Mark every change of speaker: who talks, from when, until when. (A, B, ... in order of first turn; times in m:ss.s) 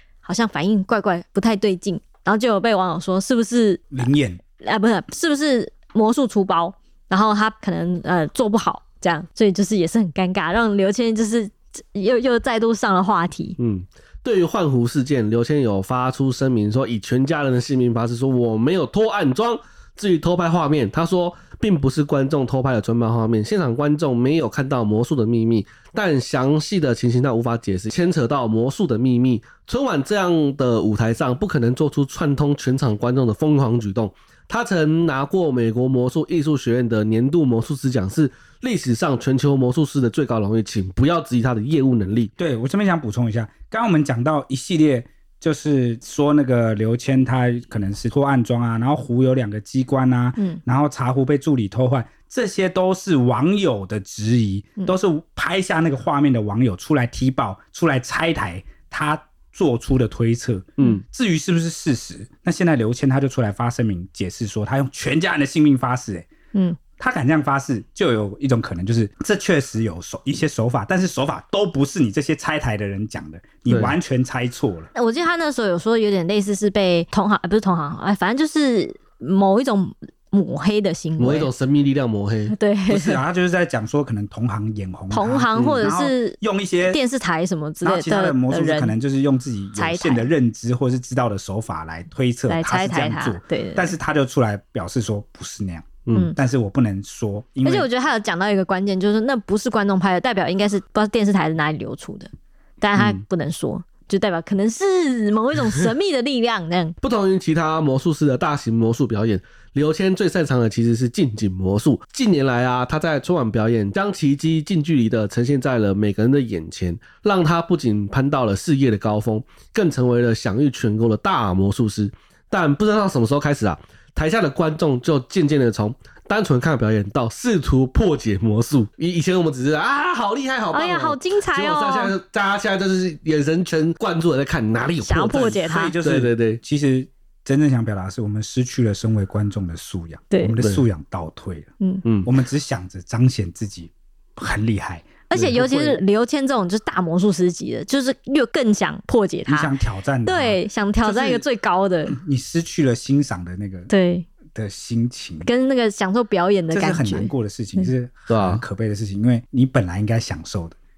0:00.2-0:04.0 A
0:03.9-0:04.4 B
0:04.6-0:13.6 A
0:13.6-0:42.3 C
0:42.4-1:06.3 B
1:07.0-1:14.9 B
1:13.7-1:14.0 C
1:15.0-1:21.5 A
1:21.2-1:22.6 C
1:22.5-1:23.2 A
1:22.9-1:27.0 B
1:25.1-1:29.0 A
1:25.6-1:25.9 C
1:27.8-1:37.9 B
1:29.8-1:30.3 A
1:32.5-1:34.0 A
1:36.1-1:36.3 C
1:36.1-1:36.4 A
1:37.6-1:47.0 A
1:47.0-2:16.6 C
2:10.7-2:12.1 A
2:15.0-2:15.9 A
2:15.4-2:21.7 B
2:20.3-2:20.6 A
2:22.0-2:22.3 C
2:22.2-2:25.3 B
2:25.3-2:29.7 A
2:25.3-2:26.0 C
2:29.5-2:31.4 B
2:30.3-2:32.2 A
2:32.1-2:33.9 B
2:33.9-2:34.3 A
2:34.5-2:35.5 B
2:35.4-2:37.9 A
2:36.7-2:40.8 B
2:38.3-2:38.6 C